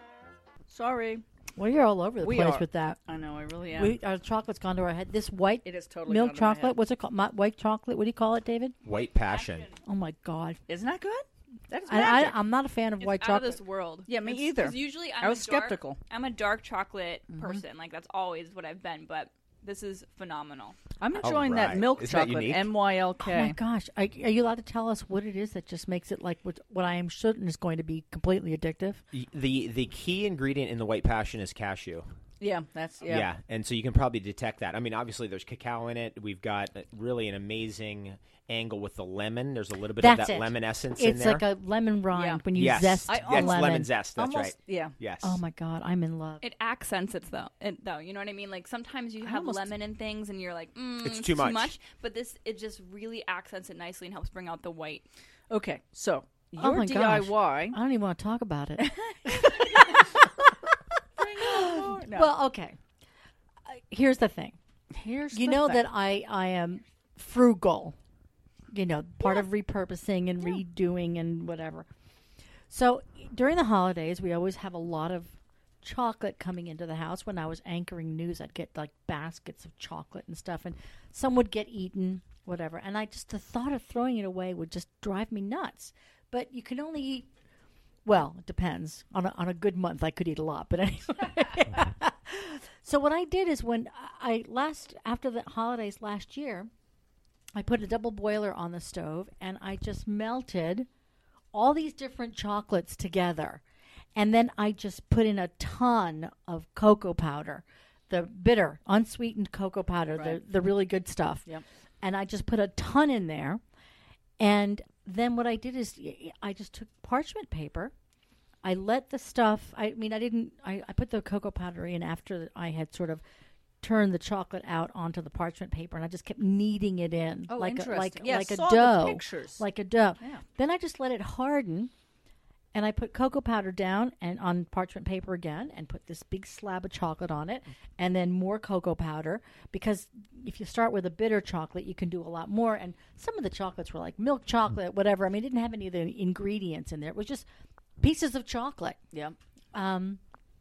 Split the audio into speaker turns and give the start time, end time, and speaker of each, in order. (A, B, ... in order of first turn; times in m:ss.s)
0:00.7-0:01.2 A
0:01.6-0:03.0 B
0:02.2-0:04.0 A
0:03.7-0:08.8 B
0:05.6-0:06.8 A
0:08.8-0:09.7 C
0:09.1-0:09.7 D
0:09.8-0:10.6 B
0:10.7-0:12.4 A
0:11.9-0:13.6 B
0:13.0-0:20.8 D
0:14.1-0:16.0 A
0:17.3-0:17.6 A
0:21.0-0:23.6 A
0:21.2-0:22.7 C
0:23.2-0:29.0 B
0:29.1-0:32.1 C
0:32.4-0:33.3 A
0:33.1-0:41.5 C
0:40.0-0:43.9 B
0:42.1-0:42.4 A
0:42.6-0:45.4 C
0:43.1-0:45.0 A
0:45.2-0:46.4 B
0:46.4-0:55.1 D
0:49.2-0:49.7 A
0:51.0-0:51.7 C
0:55.5-0:57.8 A
0:56.6-1:00.7 B
0:58.8-1:00.0 A
1:01.2-1:02.4 A
1:01.4-1:02.8 B
1:03.7-1:04.6 B
1:04.9-1:05.9 A
1:05.3-1:08.0 B
1:08.7-1:11.9 B
1:12.7-1:27.3 B
1:28.0-1:36.7 B
1:37.6-1:40.9 B
1:41.5-1:43.6 B
1:44.2-1:51.5 B
1:50.1-1:50.4 A
1:52.0-1:53.6 B
1:54.4-1:57.9 B
1:58.6-2:03.2 B
2:03.8-2:11.9 B
2:07.5-2:09.6 A
2:12.7-2:27.5 B
2:28.0-2:29.0 B
2:29.7-2:30.2 B